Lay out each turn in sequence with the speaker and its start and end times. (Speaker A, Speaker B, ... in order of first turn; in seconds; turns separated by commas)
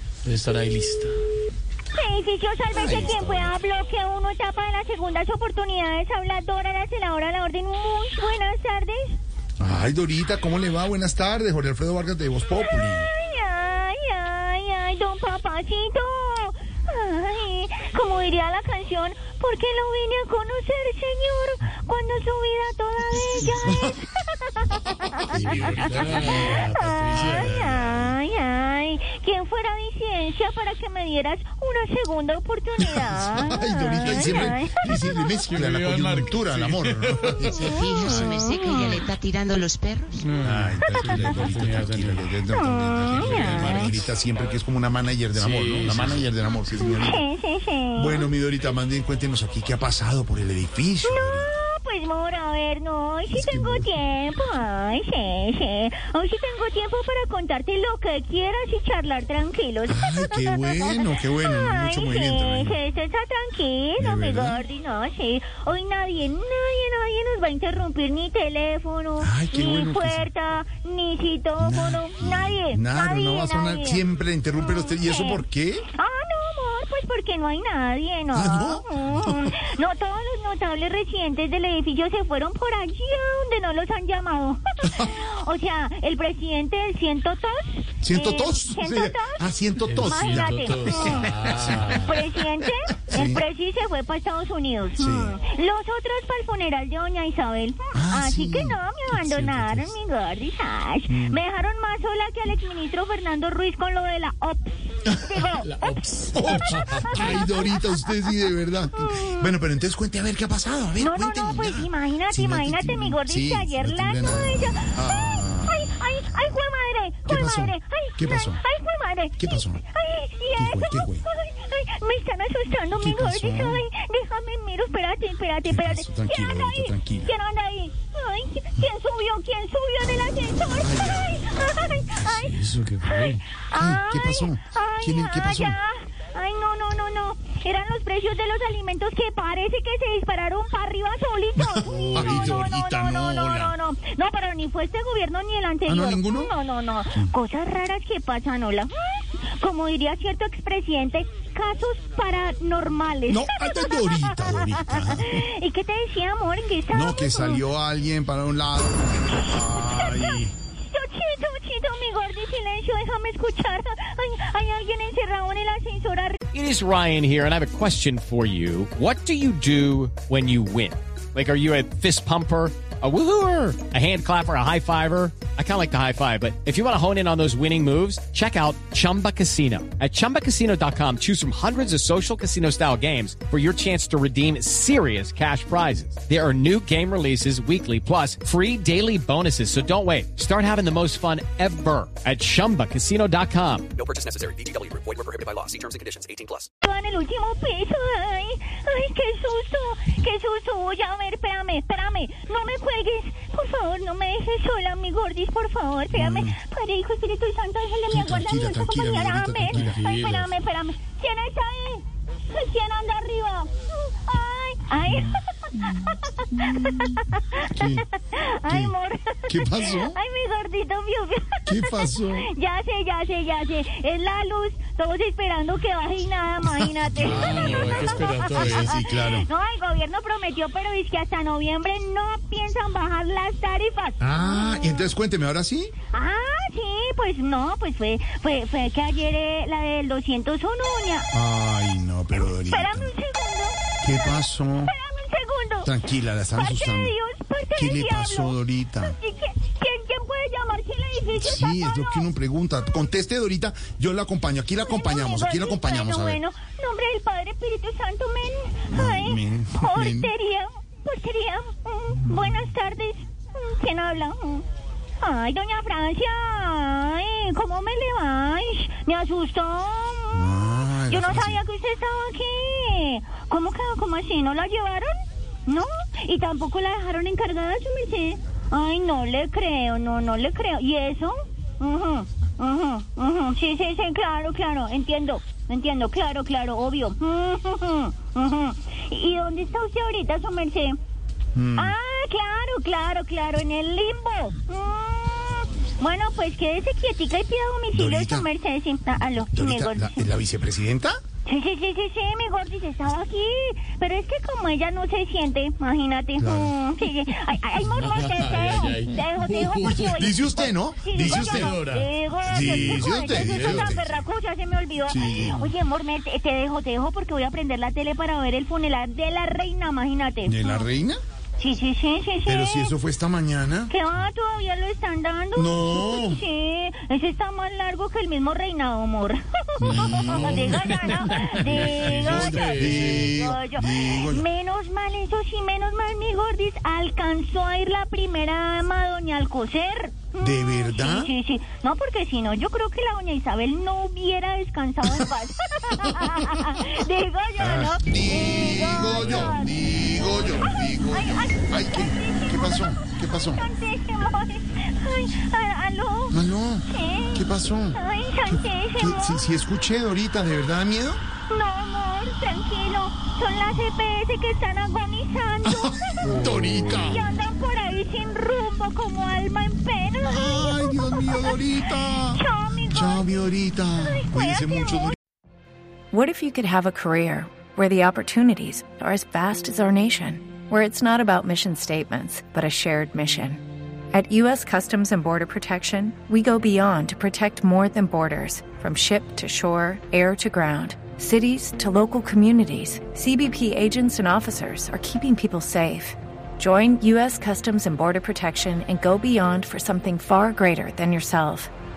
Speaker A: 0.2-1.1, Speaker B: 1.9-9.2, Speaker C: 2.7-3.5, Speaker C: 9.6-13.1, Speaker B: 12.7-35.2, Speaker C: 23.6-24.1, Speaker C: 25.1-28.2, Speaker A: 25.3-27.6, Speaker C: 33.0-38.3, Speaker A: 34.0-34.5, Speaker A: 35.4-37.6, Speaker B: 37.5-39.1, Speaker D: 37.5-40.3, Speaker A: 40.1-42.2, Speaker C: 40.4-47.2, Speaker B: 40.9-41.4, Speaker B: 42.5-44.0, Speaker A: 43.1-44.0, Speaker A: 45.3-46.3, Speaker B: 46.8-48.3, Speaker C: 47.9-51.5, Speaker B: 51.0-74.0, Speaker C: 53.3-53.9, Speaker C: 59.9-62.8, Speaker C: 64.0-64.6, Speaker C: 69.2-70.3, Speaker C: 71.6-75.8, Speaker B: 74.6-109.5, Speaker C: 78.3-79.5, Speaker C: 88.0-92.0, Speaker A: 89.8-92.2, Speaker C: 93.1-93.4, Speaker C: 95.0-95.3, Speaker C: 97.9-99.9, Speaker C: 101.1-101.4, Speaker C: 105.1-105.4, Speaker A: 105.6-107.4, Speaker C: 106.3-115.8, Speaker B: 111.0-157.6, Speaker C: 117.3-118.6, Speaker C: 119.4-119.8, Speaker C: 120.6-121.2, Speaker C: 123.0-123.8, Speaker C: 125.7-127.3, Speaker C: 130.8-131.4, Speaker A: 132.2-133.4, Speaker C: 133.7-135.8, Speaker C: 141.6-143.7, Speaker A: 141.8-142.6, Speaker C: 145.8-146.5, Speaker C: 153.3-155.4, Speaker C: 156.9-160.5, Speaker B: 159.6-166.4, Speaker E: 166.5-193.9, Speaker F: 194.0-196.7, Speaker B: 196.8-235.1, Speaker C: 206.1-206.6, Speaker C: 208.1-210.0, Speaker A: 209.7-210.5, Speaker C: 215.1-217.2, Speaker C: 217.7-218.1, Speaker C: 218.7-218.9, Speaker C: 219.5-220.2, Speaker C: 221.7-222.5, Speaker C: 226.8-229.5, Speaker A: 227.2-228.9, Speaker C: 234.2-235.9, Speaker B: 236.1-241.3, Speaker C: 241.3-243.1, Speaker B: 242.3-245.9, Speaker C: 244.0-244.9, Speaker C: 245.8-247.1, Speaker B: 246.5-252.3, Speaker C: 247.7-249.2, Speaker C: 251.3-256.4, Speaker B: 254.8-264.6, Speaker C: 258.9-260.3, Speaker B: 265.2-291.0, Speaker C: 270.3-271.6, Speaker C: 291.5-291.9, Speaker B: 291.8-300.3, Speaker C: 297.9-298.5, Speaker C: 299.4-301.2, Speaker B: 301.4-320.9, Speaker C: 306.4-306.7, Speaker A: 307.9-310.3, Speaker C: 309.8-311.8, Speaker A: 311.1-313.9, Speaker C: 312.4-314.1, Speaker C: 315.1-315.6, Speaker C: 320.4-321.2, Speaker B: 321.6-322.9, Speaker C: 322.4-323.9, Speaker B: 323.9-352.8, Speaker C: 325.6-326.4, Speaker C: 329.8-334.4, Speaker A: 329.9-333.3, Speaker C: 340.4-341.3, Speaker C: 346.0-346.9, Speaker C: 347.6-353.6, Speaker A: 349.2-349.5, Speaker B: 353.4-356.4, Speaker C: 356.3-361.2, Speaker B: 356.9-359.4, Speaker B: 361.5-373.3, Speaker C: 365.6-367.3, Speaker A: 366.2-366.8, Speaker C: 370.2-375.1, Speaker B: 373.9-375.1, Speaker G: 376.1-401.7